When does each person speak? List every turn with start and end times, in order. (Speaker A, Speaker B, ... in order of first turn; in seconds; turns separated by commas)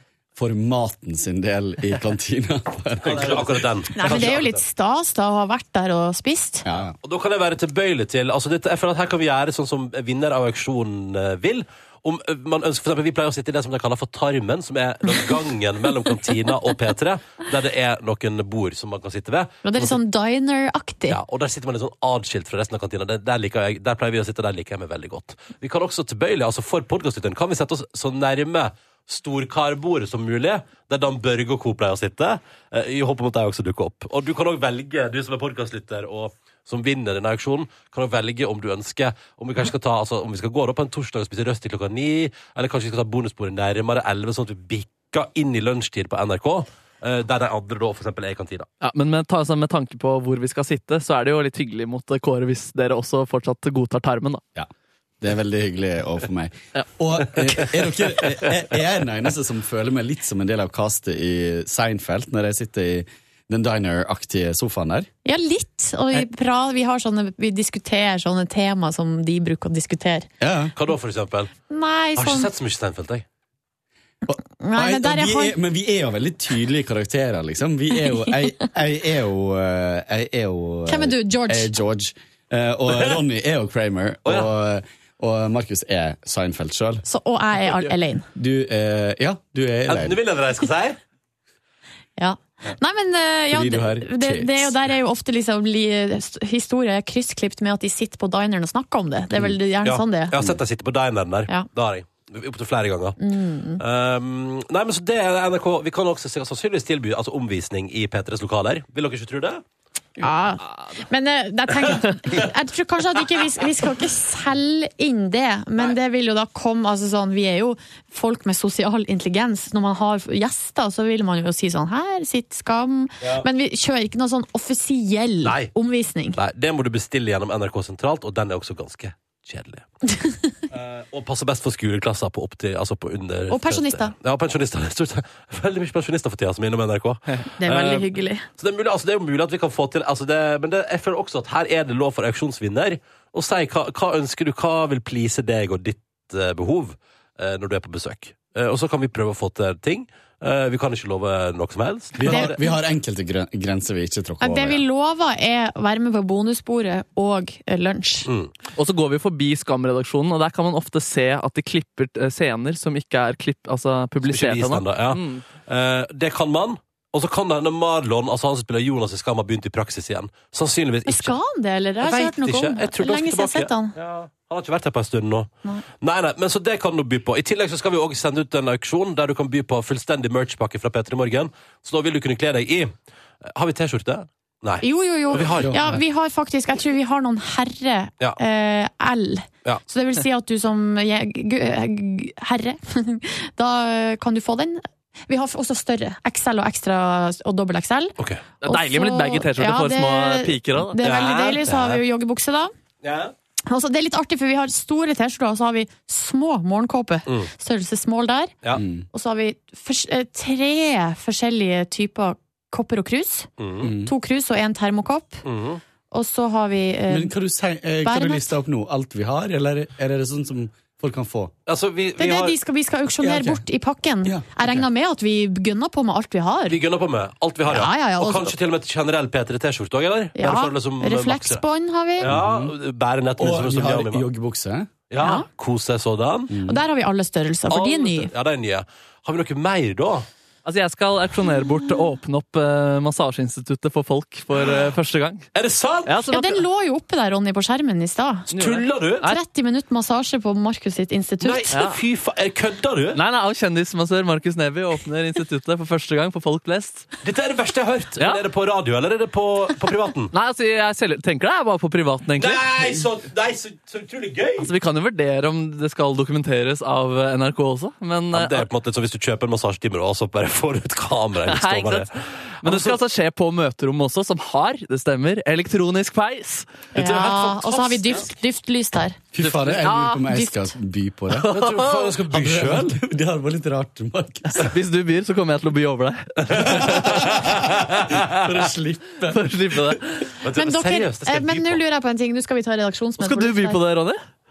Speaker A: 0.4-4.3, Speaker B: 3.0-4.6, Speaker C: 3.9-6.7, Speaker A: 6.7-6.9, Speaker B: 7.0-20.0, Speaker C: 19.6-21.2, Speaker B: 21.1-48.7, Speaker D: 48.8-54.4, Speaker A: 55.2-65.1, Speaker D: 56.8-57.7, Speaker C: 65.2-70.3, Speaker A: 70.4-70.7, Speaker B: 70.7-71.5, Speaker C: 71.7-72.5, Speaker B: 72.2-73.2, Speaker C: 74.3-75.6, Speaker A: 74.3-87.0, Speaker C: 80.9-81.7, Speaker B: 82.9-83.2, Speaker B: 84.2-84.5, Speaker C: 87.0-88.3, Speaker A: 88.3-90.2, Speaker B: 89.9-91.0, Speaker C: 92.2-100.3, Speaker A: 93.5-94.8, Speaker B: 99.8-103.2, Speaker C: 103.2-103.8, Speaker B: 103.8-109.6, Speaker C: 110.2-126.4, Speaker D: 110.6-111.0, Speaker B: 123.2-123.5, Speaker B: 125.4-125.7, Speaker B: 126.3-129.9, Speaker B: 130.7-152.6, Speaker C: 133.5-134.1, Speaker C: 137.6-138.5, Speaker A: 152.2-154.8, Speaker C: 152.2-152.7, Speaker C: 154.4-158.3, Speaker B: 158.3-158.5, Speaker D: 158.8-165.4, Speaker B: 164.2-171.4, Speaker C: 171.1-173.9, Speaker B: 172.0-182.9, Speaker B: 183.4-185.8, Speaker C: 184.8-198.2, Speaker A: 185.4-186.0, Speaker B: 198.2-198.4, Speaker D: 198.6-201.0, Speaker C: 198.7-202.7, Speaker B: 201.0-202.0, Speaker B: 203.0-203.3, Speaker C: 203.7-208.6, Speaker A: 208.8-209.1, Speaker C: 209.1-215.4, Speaker B: 213.6-213.9, Speaker A: 213.8-214.1, Speaker B: 215.4-215.8, Speaker C: 216.1-217.3, Speaker A: 217.1-221.5, Speaker C: 218.0-218.5, Speaker B: 221.7-222.6, Speaker C: 222.2-226.8, Speaker A: 223.2-223.7, Speaker A: 224.2-224.9, Speaker B: 226.7-231.6, Speaker C: 227.7-228.6, Speaker C: 230.4-232.3, Speaker B: 232.2-234.3, Speaker A: 232.2-232.8, Speaker A: 233.4-234.9, Speaker B: 235.1-236.6, Speaker C: 235.2-235.5, Speaker A: 236.5-236.9, Speaker C: 236.7-238.3, Speaker B: 237.7-240.3, Speaker D: 240.7-245.5, Speaker B: 245.6-246.2, Speaker D: 246.1-246.6, Speaker C: 246.3-248.5, Speaker B: 248.5-249.3, Speaker D: 248.5-249.4, Speaker C: 249.2-251.7, Speaker B: 251.4-253.2, Speaker D: 251.7-252.0, Speaker D: 253.1-257.1, Speaker B: 257.2-260.3, Speaker D: 258.2-258.5, Speaker D: 260.3-262.9, Speaker B: 262.4-264.7, Speaker D: 264.6-268.7, Speaker B: 268.3-272.1, Speaker D: 271.4-278.2, Speaker B: 272.6-273.0, Speaker C: 276.9-279.2, Speaker B: 277.0-278.0, Speaker A: 279.3-281.5, Speaker D: 279.4-280.3, Speaker C: 280.2-280.7, Speaker D: 281.3-282.2, Speaker B: 281.5-282.9, Speaker A: 282.3-284.6, Speaker D: 284.5-287.4, Speaker A: 286.8-287.5, Speaker B: 287.4-288.3, Speaker A: 288.1-289.5, Speaker D: 289.3-290.3, Speaker B: 290.4-291.8, Speaker C: 290.6-293.8, Speaker D: 293.2-294.2